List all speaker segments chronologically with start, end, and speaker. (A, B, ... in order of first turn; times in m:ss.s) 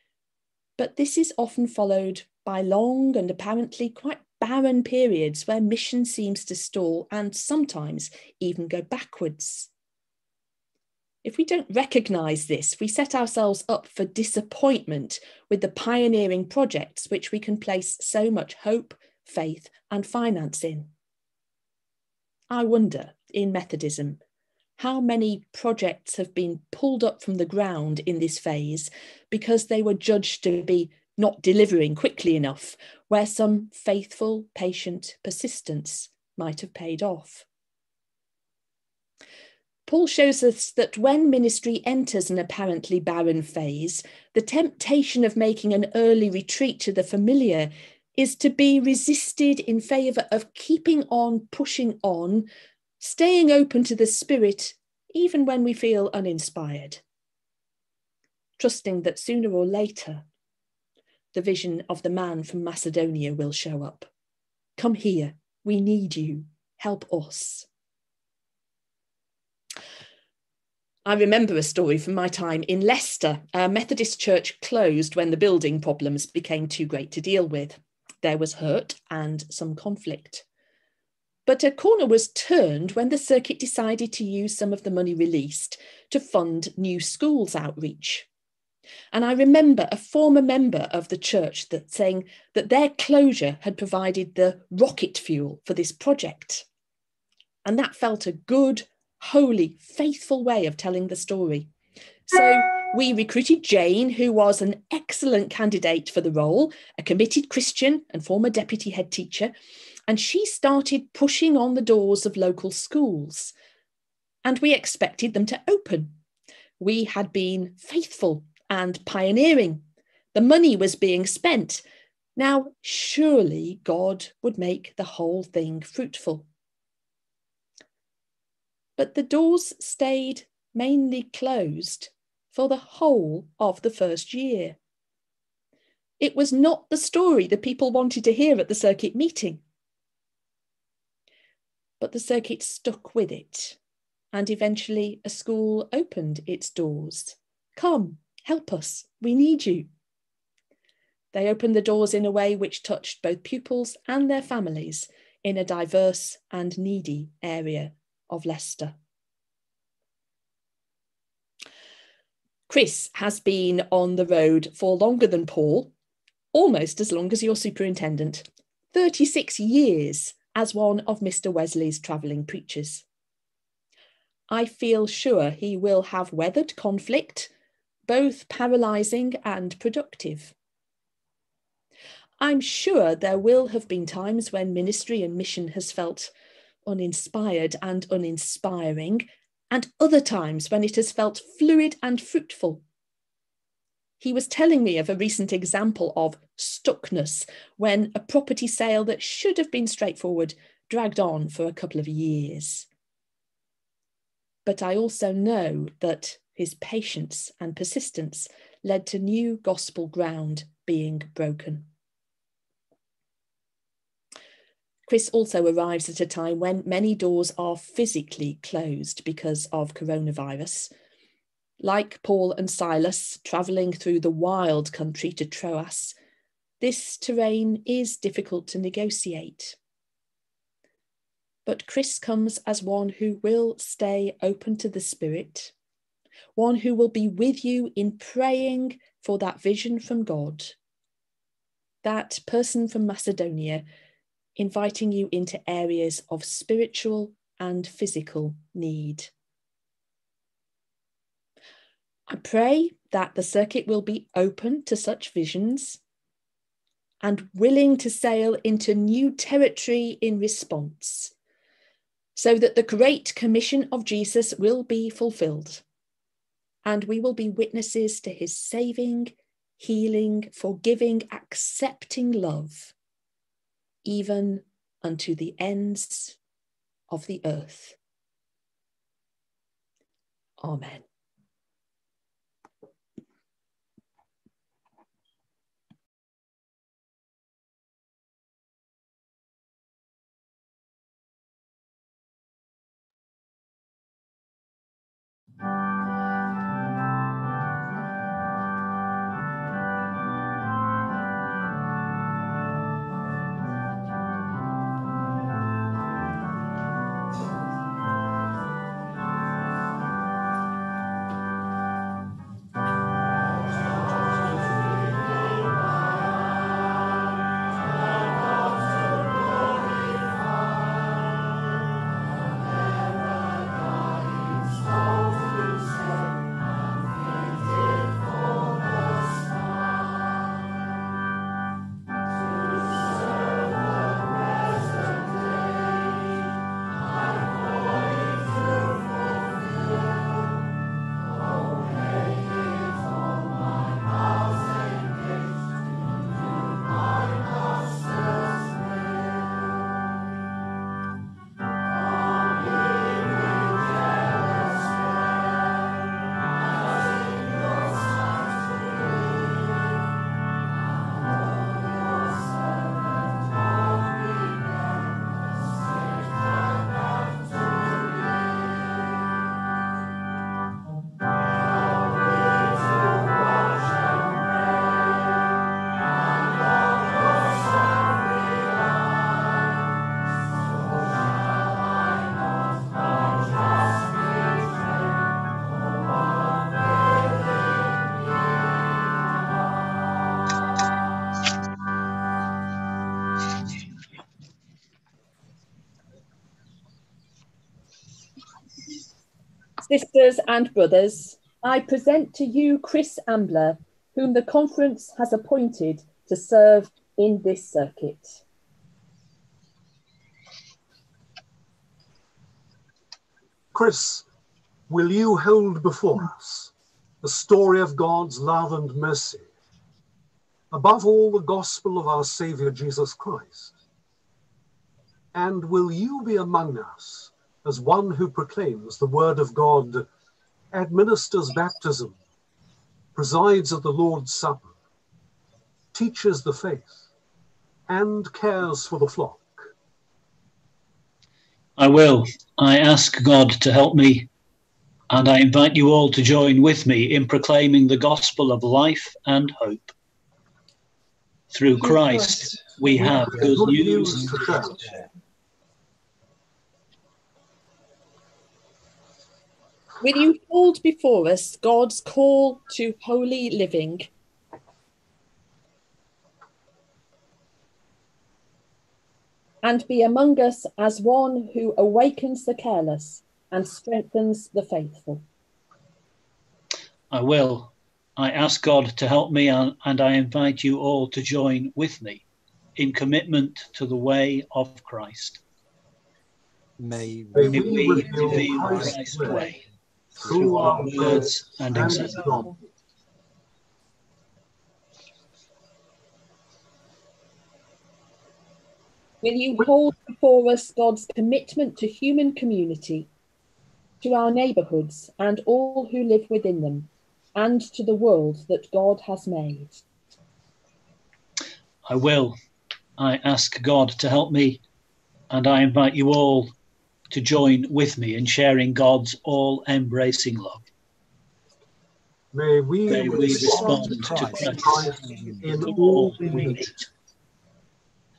0:00.8-0:09.7 A
0:11.2-0:20.9 A
0:22.5-0:24.2 A
0:24.8-0:37.5 A
0:39.9-0:52.5 A
0:53.0-0:57.0 A
0:58.6-1:00.3 A
1:01.3-1:04.1 A
1:04.8-1:07.7 A
1:11.1-1:20.4 A
1:21.5-1:28.3 A
1:29.1-1:36.7 A
1:37.6-1:41.7 A
1:42.3-1:49.5 A
1:50.1-1:53.5 A
1:54.4-1:56.1 A
1:56.8-1:59.8 A
2:00.3-2:01.8 A
2:02.4-2:06.5 A
2:09.0-2:14.8 A
2:16.2-2:19.6 A
2:22.0-2:23.8 A
2:24.3-2:29.9 A
2:31.3-2:39.0 A
2:42.7-2:45.9 A
2:46.5-2:53.0 A
2:54.5-2:57.5 A
2:58.1-3:00.5 A
3:02.4-3:06.3 A
3:06.9-3:12.8 A
3:14.2-3:22.9 A
3:24.6-3:31.9 A
3:35.1-3:40.9 A
3:41.8-3:46.2 A
3:46.8-3:49.8 A
3:51.7-3:55.7 A
3:56.6-4:00.8 A
4:02.0-4:03.8 A
4:04.6-4:09.3 A
4:12.3-4:16.0 A
4:17.2-4:21.3 A
4:22.4-4:25.8 A
4:26.8-4:32.9 A
4:34.0-4:36.4 A
4:37.1-4:38.0 A
4:40.6-4:41.0 A
6:39.8-6:48.4 A
6:53.7-6:54.3 B
6:54.9-6:59.5 B
7:00.7-7:03.8 B
7:05.3-7:10.1 B
7:10.7-7:12.2 B
7:13.2-7:14.7 B
7:15.9-7:17.0 B
7:17.9-7:19.6 B
7:21.8-7:24.3 C
7:25.1-7:29.9 C
7:31.5-7:34.6 C
7:32.9-7:35.1 D
7:33.0-7:34.9 B
7:40.0-7:44.1 A
7:49.6-7:55.2 A
7:57.1-8:02.2 C
8:02.8-8:05.4 C
8:06.8-8:09.6 D
8:07.4-8:09.5 B
8:07.4-8:09.6 C
8:10.2-8:12.4 D
8:10.3-8:12.4 C
8:10.3-8:12.5 B
8:19.2-8:23.1 A
8:24.0-8:29.8 A
8:31.9-8:32.4 C
8:33.0-8:34.6 C
8:35.3-8:36.5 C
8:37.1-8:40.6 C
8:42.3-8:46.7 B
8:42.8-8:45.0 C
8:42.9-8:46.6 D
8:45.5-8:46.9 C